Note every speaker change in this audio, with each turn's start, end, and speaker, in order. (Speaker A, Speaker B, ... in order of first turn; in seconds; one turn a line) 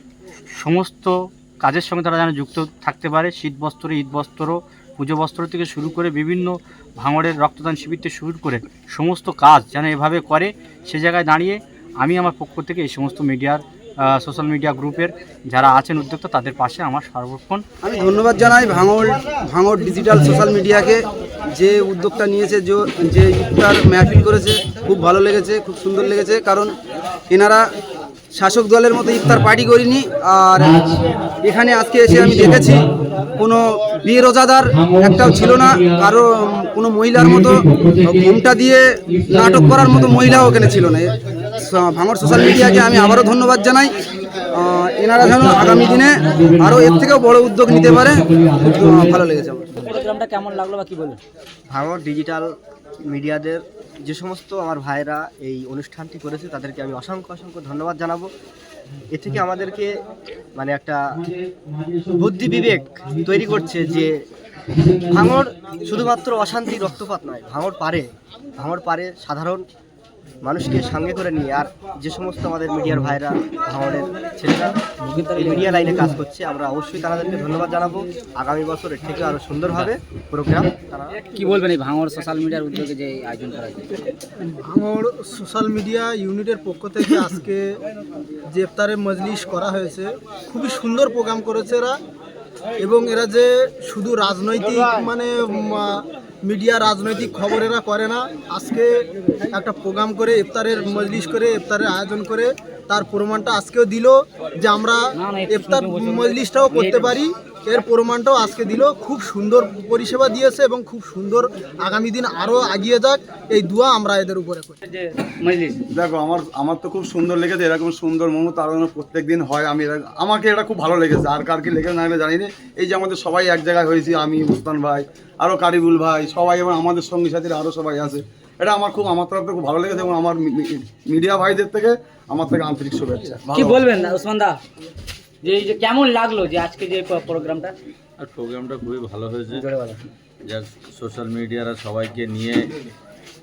Speaker A: 0.5-17.6
Speaker B: 17.8-26.7
Speaker B: 27.3-27.6
Speaker B: 28.3-43.9
Speaker B: 44.5-49.7
Speaker C: 45.9-46.7
Speaker C: 49.8-51.2
Speaker D: 51.7-52.5
Speaker D: 53.1-58.3
Speaker D: 59.1-59.9
Speaker D: 60.6-61.2
Speaker D: 62.1-64.2
Speaker D: 65.1-69.7
Speaker D: 70.4-74.8
Speaker C: 75.0-76.0
Speaker D: 75.4-81.2
Speaker C: 81.3-84.0
Speaker E: 84.7-87.8
Speaker E: 88.5-92.0
Speaker E: 92.8-99.0
Speaker E: 99.5-114.8
Speaker C: 105.1-107.2
Speaker C: 114.8-115.8
Speaker F: 115.9-133.8
Speaker C: 133.5-134.6
Speaker C: 135.4-137.8
Speaker G: 138.2-139.6
Speaker C: 139.5-140.0
Speaker G: 140.5-142.6